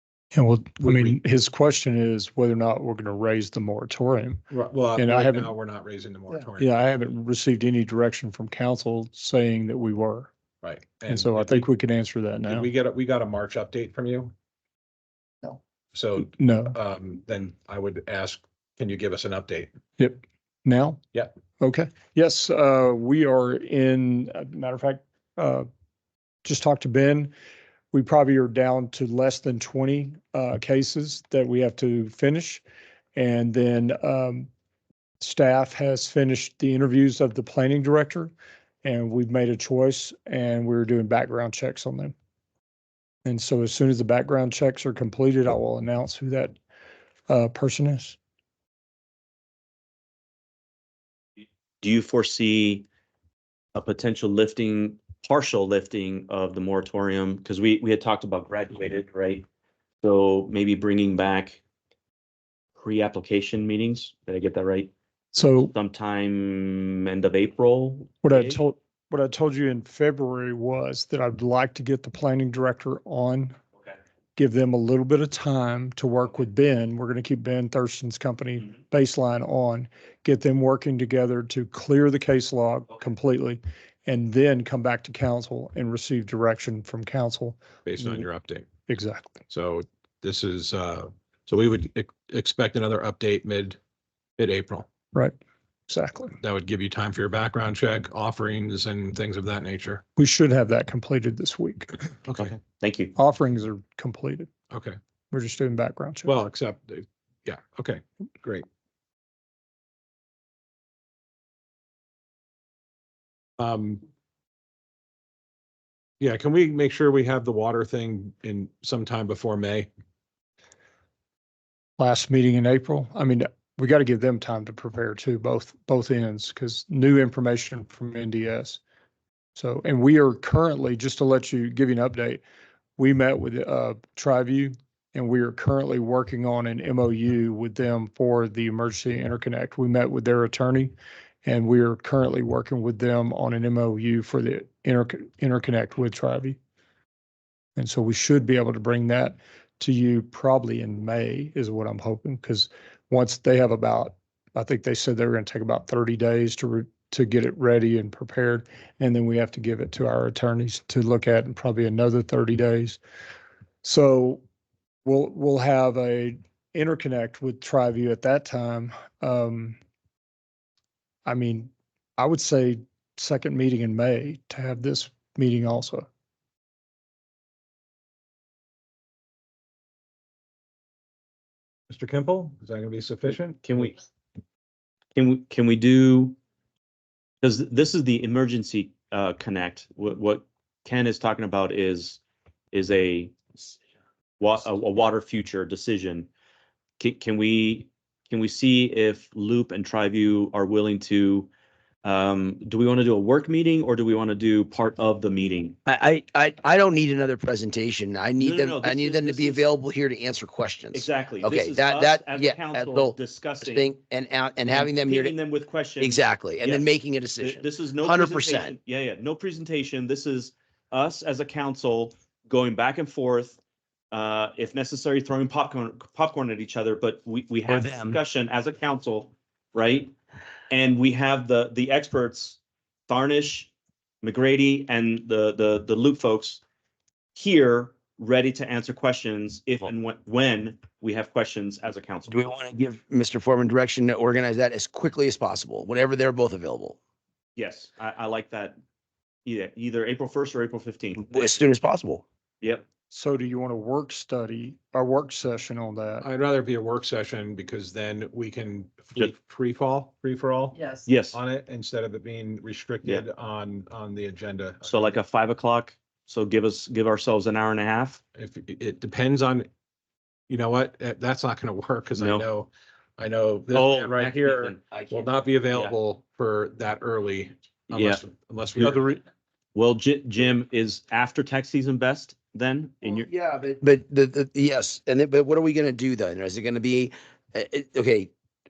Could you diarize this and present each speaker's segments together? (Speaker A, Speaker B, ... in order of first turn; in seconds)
Speaker A: 0.3-4.4, 5.0-5.5, 6.6-10.3, 11.1-12.7, 16.2-16.8, 20.0-21.0, 21.6-25.7, 26.4-27.3, 27.9-32.6, 33.1-34.5, 35.2-38.3, 38.8-42.1, 43.2-46.5, 47.3-48.2, 65.3-65.7, 68.2-73.5, 74.3-88.2, 88.9-89.4, 95.9-96.4, 100.2-102.1, 103.2-104.5, 105.3-106.3, 122.0-128.8, 129.6-132.4, 133.0-146.6, 147.8-163.0, 163.8-164.4, 165.1-169.8, 171.2-176.1, 253.1-256.3
Speaker B: 0.8-1.1, 4.5-6.7, 10.6-11.7, 12.5-14.3, 15.9-19.7, 87.8-88.7, 89.5-93.8, 94.4-94.9, 96.4-100.0, 102.2-102.6, 104.7-105.0, 106.2-108.7, 113.6-114.0, 116.2-119.9, 181.9-183.9, 256.2-265.2, 268.4-269.7, 270.5-279.2
Speaker C: 51.8-52.8, 53.7-59.4, 60.0-61.6, 62.8-64.9, 65.6-68.6, 102.4-103.1, 183.6-184.0, 185.2-186.4, 187.4-192.2, 192.7-193.3, 194.4-196.3, 197.0-201.5, 202.0-205.8, 208.4-209.7, 210.9-213.9, 214.7-223.6, 224.1-230.1, 230.7-233.7, 234.2-236.6, 237.3-242.4, 247.5-248.8, 249.4-251.5, 261.0-261.4, 264.8-268.2, 272.1-272.4, 273.7-274.8, 277.9-278.2, 279.8-283.3
Speaker D: 205.9-215.4, 216.0-218.8, 227.7-228.2, 242.3-247.0, 251.2-252.2, 274.9-275.2, 283.0-288.3